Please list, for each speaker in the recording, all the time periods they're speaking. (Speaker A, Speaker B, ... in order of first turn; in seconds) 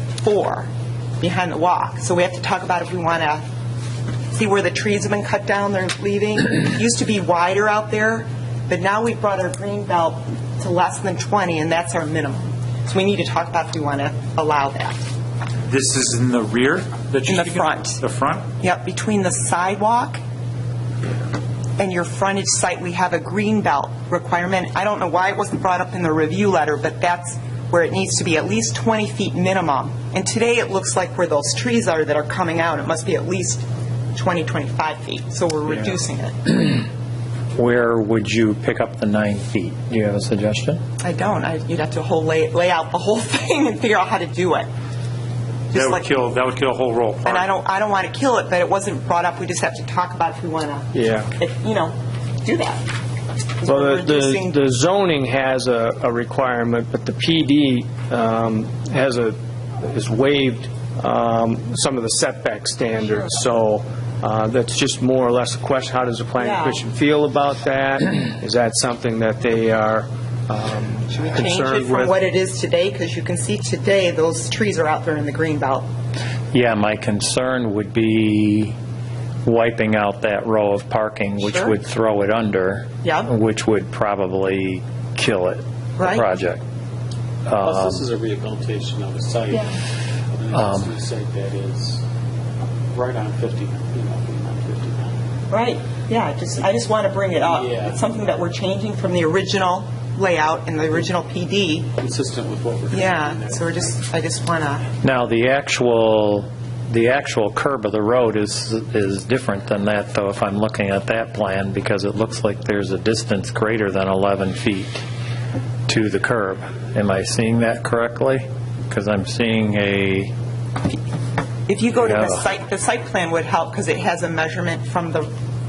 Speaker A: 0.2-0.7, 1.2-3.4, 4.3-15.0, 17.2-18.0, 18.6-20.2, 21.8-36.4, 41.0-44.7, 45.7-46.0, 47.2-52.8, 53.6-54.6, 66.4-66.8, 71.1-75.9, 81.4-81.7, 83.0-83.3, 86.0-86.2, 95.5-101.9, 102.9-104.8, 121.7-125.3
Speaker B: 15.7-18.4, 45.7-47.4
Speaker C: 37.5-40.8, 76.5-78.7, 79.4-86.6, 87.5-88.0, 90.5-90.9, 105.0-115.0, 115.9-120.3, 121.9-122.4
Speaker D: 50.9-51.3, 53.6-72.1
Speaker E: 87.6-89.7, 90.3-92.0, 92.9-95.2, 97.4-98.0, 102.0-103.9